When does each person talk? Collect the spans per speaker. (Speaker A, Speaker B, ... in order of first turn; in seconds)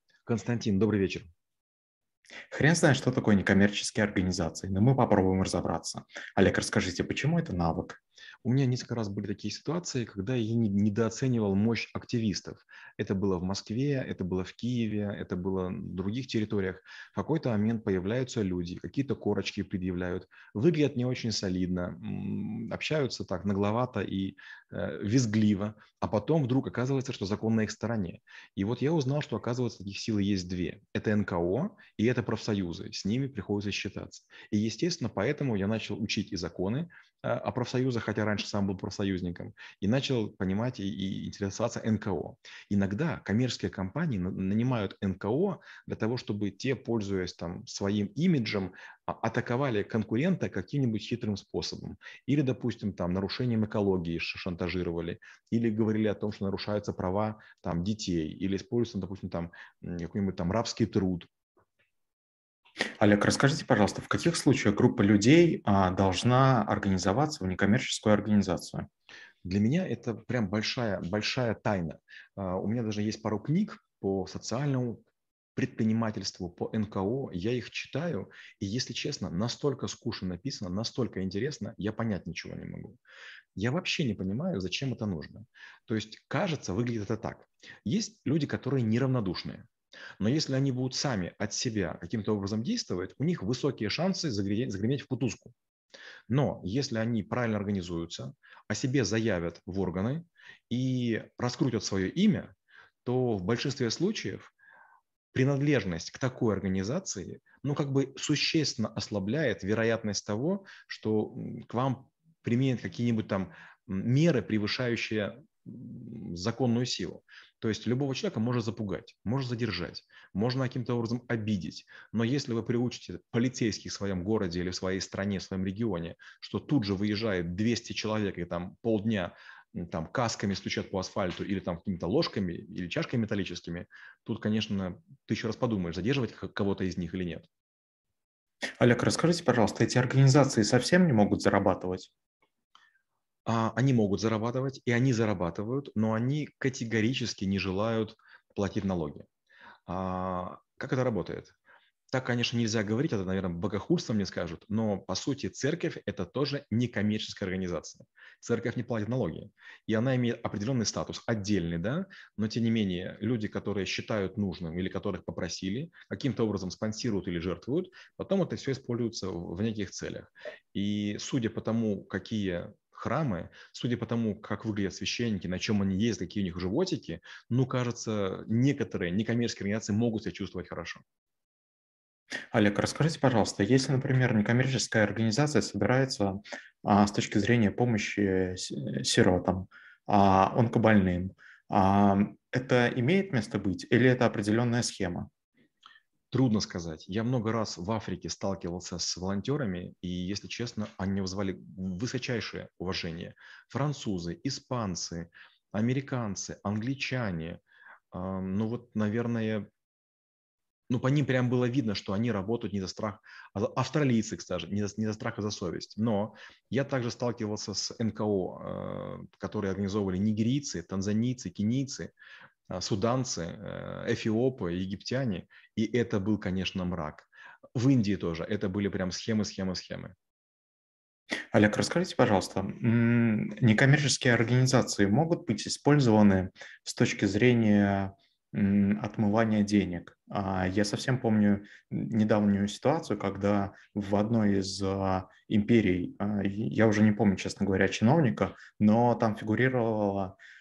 Speaker A: 0.2-1.3, 8.4-61.3, 69.4-75.0, 75.5-83.0, 83.5-89.7, 90.2-95.5, 96.3-104.5, 105.3-137.5, 143.4-149.3, 149.8-151.5, 152.1-181.0, 196.3-209.7, 210.9-222.1, 222.7-230.1
Speaker B: 2.5-8.0, 63.0-68.9, 138.8-142.1, 182.5-195.3, 231.5-250.3